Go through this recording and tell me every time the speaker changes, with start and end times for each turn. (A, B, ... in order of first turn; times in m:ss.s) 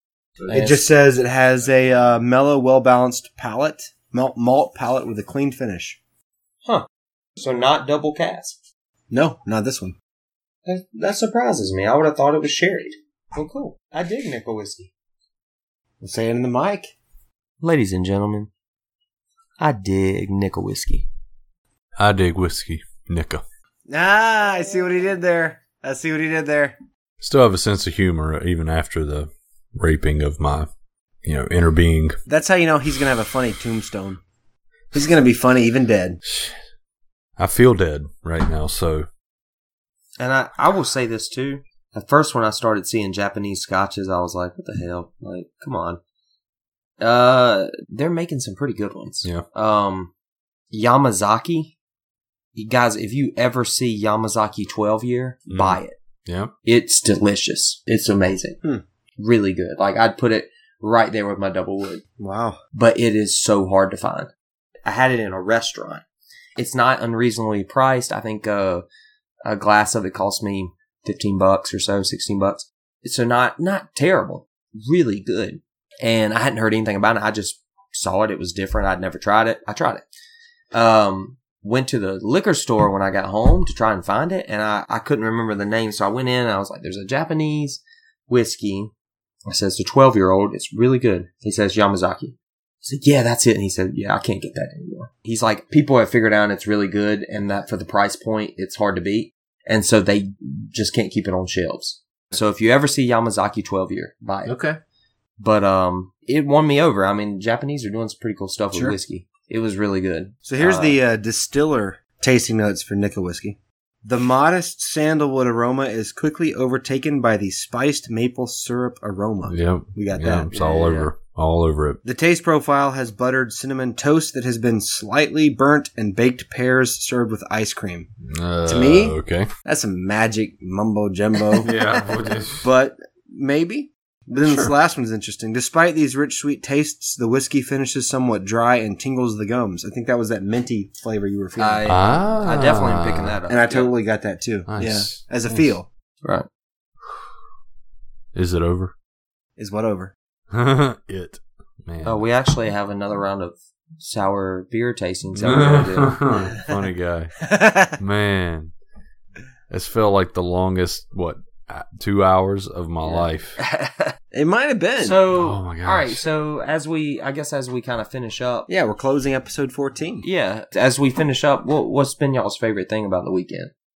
0:00.4-0:00.8 A
0:00.5-0:06.0 B
0:06.6-0:08.6 A
0:09.1-0:10.0 B
0:10.6-0:14.9 A
0:16.0-0:16.9 B
0:17.6-0:18.5 A
0:19.6-0:21.1 A
0:22.0-0:23.4 C
0:23.9-0:26.8 B
0:27.2-0:30.7 C
0:31.2-0:32.2 C
0:32.3-0:34.2 B
0:34.9-0:36.2 B
0:36.3-0:36.6 C
0:37.4-0:39.1 C
0:40.2-0:46.0 A
0:47.0-0:50.1 A
0:50.7-0:51.7 A
0:52.6-0:56.0 A
0:55.5-0:56.5 C
0:56.6-0:58.6 A
0:59.2-1:02.0 A
1:02.2-1:02.6 B
1:02.7-1:04.3 A
1:04.8-1:06.0 A
1:06.6-1:08.9 A
1:09.4-1:20.0 A
1:20.7-1:28.9 A
1:29.5-1:44.6 A
1:44.5-1:44.8 B
1:45.4-1:51.0 A
1:50.4-2:00.6 B
1:59.5-2:02.0 C
2:00.5-2:01.1 A
2:02.0-2:08.1 B
2:08.3-2:09.5 C
2:08.7-2:11.9 B
2:11.6-2:12.7 C
2:12.6-2:21.9 B
2:14.4-2:14.7 C
2:21.6-2:23.9 A
2:21.8-2:23.4 C
2:23.5-2:25.9 B
2:24.7-2:25.7 C
2:28.3-2:28.9 C
2:29.6-2:30.1 B
2:30.5-2:32.2 C
2:32.0-2:36.4 A
2:35.3-2:38.7 C
2:37.4-2:38.0 B
2:39.7-2:43.6 C
2:43.0-2:44.2 A
2:44.3-2:45.2 B
2:45.0-2:48.7 A
2:45.3-2:46.2 C
2:48.7-2:50.2 B
2:50.2-2:53.7 A